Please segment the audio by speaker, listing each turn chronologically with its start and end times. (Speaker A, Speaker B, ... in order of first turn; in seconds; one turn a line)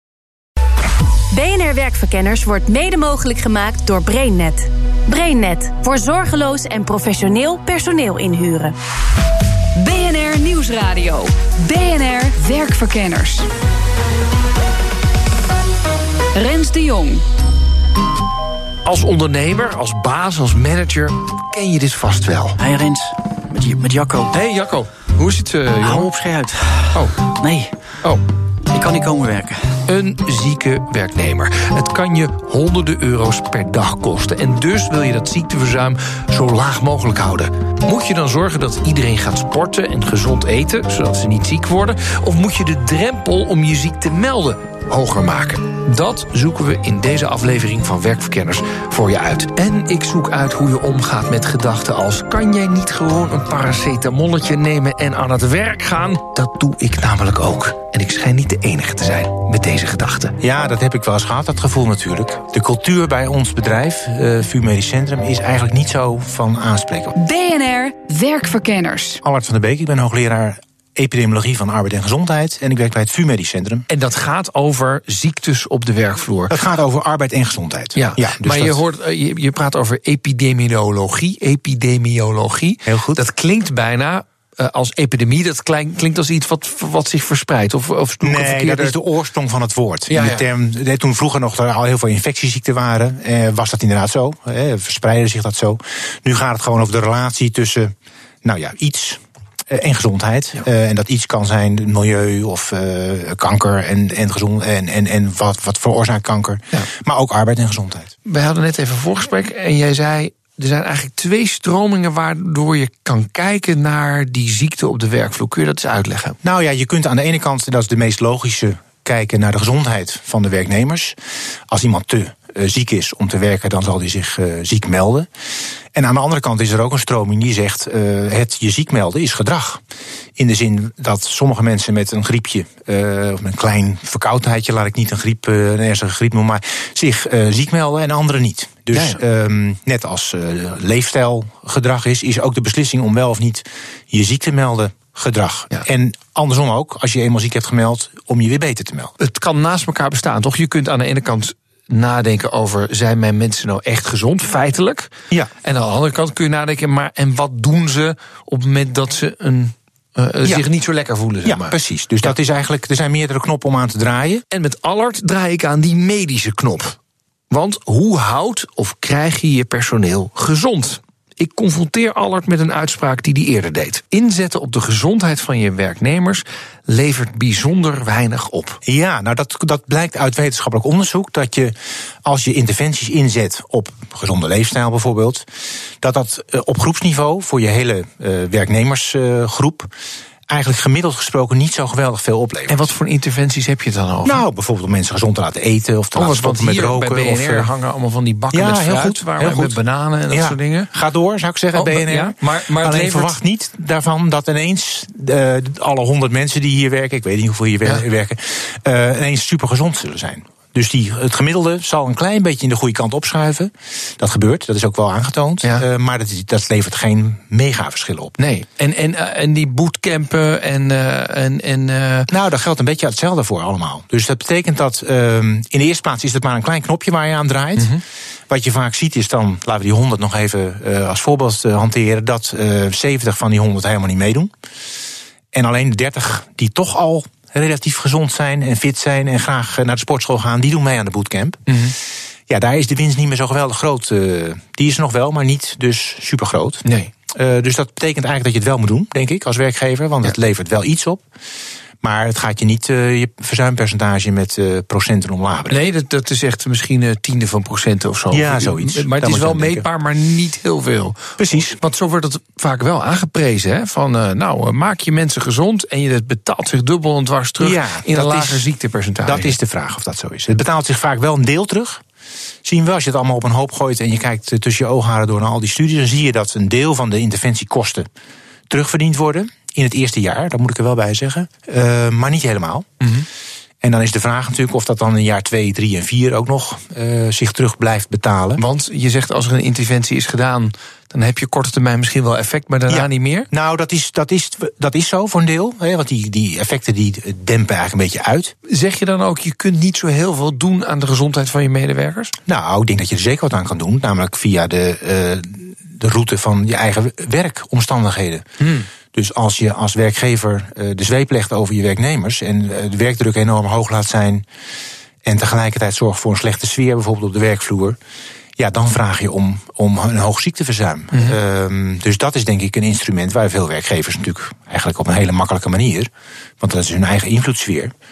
Speaker A: 1.3-8.8
Speaker B: 9.8-13.5
Speaker B: 16.4-17.2
Speaker C: 18.9-22.6
Speaker D: 22.6-24.3
Speaker C: 24.3-26.1
Speaker D: 25.8-27.7
Speaker D: 28.7-29.8
Speaker C: 29.9-60.4
Speaker E: 60.4-67.1
Speaker B: 67.2-69.2
Speaker E: 69.2-73.9
Speaker C: 73.9-76.6
Speaker E: 76.5-78.8
Speaker C: 78.0-89.0
Speaker E: 82.9-83.2
Speaker E: 88.2-108.1
Speaker C: 90.1-90.5
Speaker C: 108.3-116.4
Speaker E: 116.4-121.2
Speaker E: 121.7-125.3
Speaker E: 125.9-129.8
Speaker E: 130.4-149.1
Speaker C: 138.9-139.2
Speaker C: 149.2-155.1
Speaker C: 155.6-162.3
Speaker E: 161.4-164.4
Speaker C: 164.5-167.0
Speaker C: 167.5-178.8
Speaker E: 178.8-185.5
Speaker E: 186.0-189.9
Speaker E: 190.5-192.9
Speaker C: 192.7-194.4
Speaker E: 194.2-197.7
Speaker C: 196.2-200.9
Speaker E: 198.5-199.8
Speaker E: 200.3-218.4
Speaker C: 201.8-203.3
Speaker C: 218.4-222.3
Speaker E: 222.3-227.9
Speaker E: 228.5-234.5
Speaker E: 235.5-241.8
Speaker C: 241.7-241.9
Speaker E: 242.5-251.2
Speaker C: 246.8-247.1
Speaker E: 252.0-255.8
Speaker C: 255.7-269.6
Speaker E: 258.3-259.9
Speaker E: 261.4-261.8
Speaker E: 267.6-268.7
Speaker E: 269.2-272.0
Speaker E: 272.6-278.1
Speaker E: 278.7-282.9
Speaker E: 283.8-288.6
Speaker C: 288.6-293.5
Speaker E: 292.9-298.5
Speaker C: 298.7-302.3
Speaker E: 302.5-308.4
Speaker C: 308.6-308.9
Speaker E: 309.1-314.5
Speaker E: 315.2-318.0
Speaker E: 318.6-327.9
Speaker C: 321.1-321.4